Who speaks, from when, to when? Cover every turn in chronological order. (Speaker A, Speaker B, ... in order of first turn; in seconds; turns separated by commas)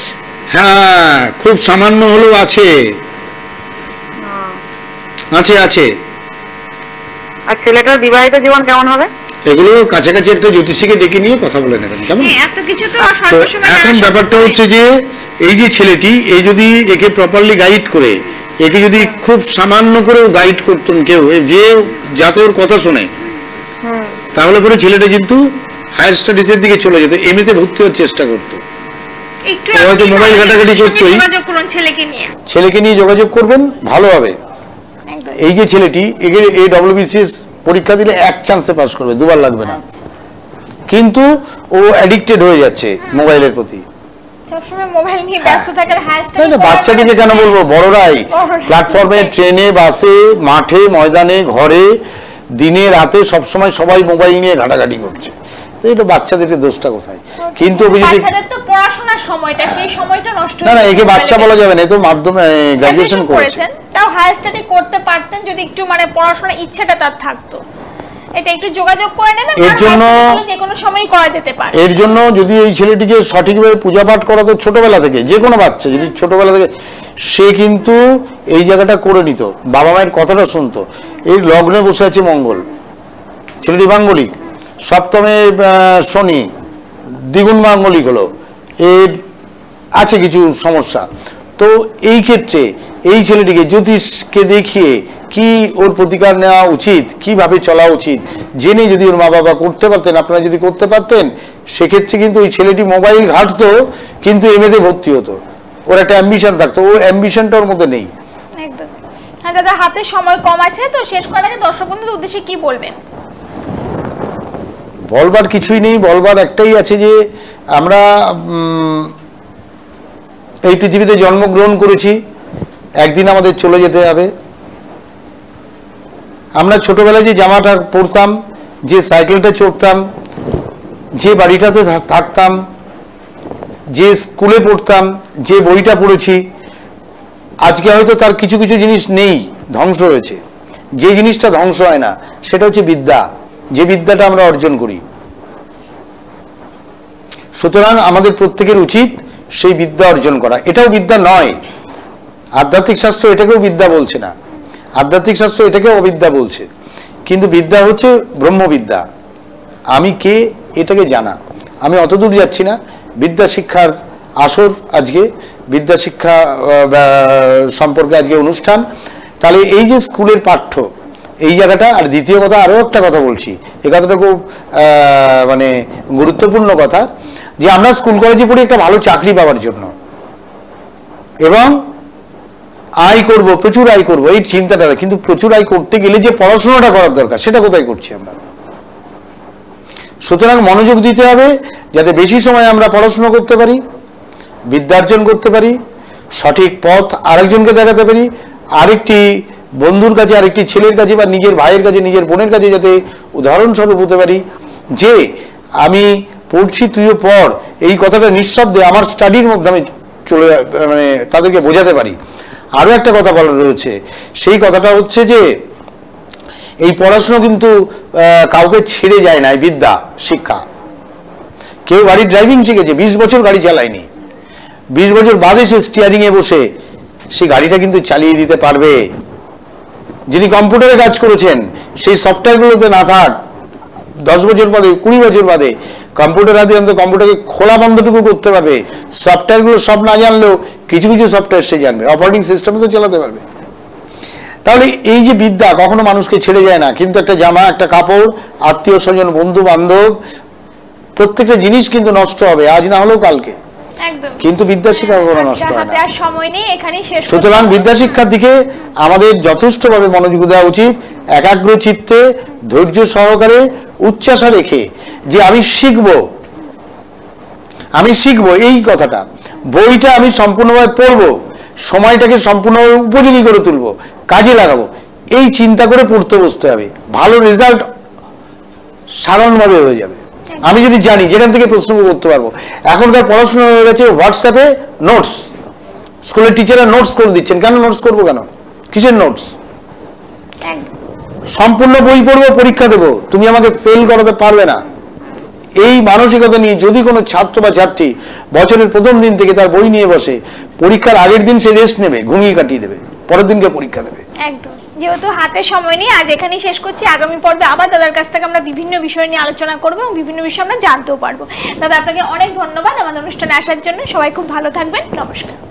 Speaker A: 0.5-2.7, Speaker B: 4.2-4.6, Speaker A: 5.3-5.9, Speaker B: 7.5-9.1, Speaker A: 9.5-12.3, Speaker C: 12.2-14.6, Speaker A: 13.3-23.1, Speaker B: 23.8-24.2, Speaker A: 24.3-25.4, Speaker A: 26.0-28.6, Speaker C: 29.5-32.3, Speaker A: 29.7-31.2, Speaker A: 32.5-34.3, Speaker C: 35.1-35.4, Speaker A: 35.4-39.8, Speaker C: 39.6-40.0, Speaker A: 40.9-43.8, Speaker C: 43.0-43.3, Speaker C: 44.5-47.5, Speaker A: 45.4-45.7, Speaker A: 46.4-51.9, Speaker C: 48.3-49.3, Speaker A: 52.6-58.3, Speaker C: 57.4-61.5, Speaker A: 59.6-59.9, Speaker A: 60.6-63.6, Speaker C: 62.8-67.6, Speaker C: 68.4-71.8, Speaker A: 69.6-70.4, Speaker A: 71.7-76.7, Speaker A: 77.3-82.7, Speaker A: 83.6-86.5, Speaker A: 87.2-88.3, Speaker A: 88.8-89.2, Speaker A: 90.0-91.1, Speaker A: 91.6-105.4, Speaker A: 105.9-108.1, Speaker C: 108.6-108.9, Speaker C: 109.4-113.0, Speaker A: 115.1-117.2, Speaker A: 117.8-119.1, Speaker A: 120.7-122.2, Speaker A: 123.0-124.3, Speaker A: 126.6-128.3, Speaker A: 128.9-130.0, Speaker A: 131.2-132.6, Speaker A: 133.9-136.4, Speaker A: 137.6-140.4, Speaker A: 141.0-145.0, Speaker A: 147.6-151.6, Speaker A: 152.6-154.3, Speaker A: 155.0-156.7, Speaker A: 157.3-159.0, Speaker A: 159.9-168.8, Speaker A: 169.4-170.8, Speaker A: 171.4-177.0, Speaker A: 177.6-179.9, Speaker A: 181.4-181.8, Speaker A: 183.0-188.4, Speaker A: 190.3-193.8, Speaker A: 194.7-195.8, Speaker A: 196.4-204.4, Speaker A: 205.0-205.2, Speaker A: 205.8-212.2, Speaker A: 212.8-215.4, Speaker A: 216.8-220.6, Speaker A: 221.9-224.1, Speaker A: 224.9-226.6, Speaker A: 227.3-229.0, Speaker A: 230.3-233.3, Speaker A: 234.3-243.4, Speaker A: 244.6-250.2, Speaker A: 251.2-253.6, Speaker C: 254.0-258.1, Speaker A: 254.4-256.0, Speaker A: 257.2-266.2, Speaker A: 268.0-271.3, Speaker A: 271.9-277.9, Speaker A: 279.2-285.5, Speaker A: 286.2-289.5, Speaker C: 290.6-290.9, Speaker A: 291.5-294.8, Speaker A: 295.8-304.2, Speaker C: 304.4-315.6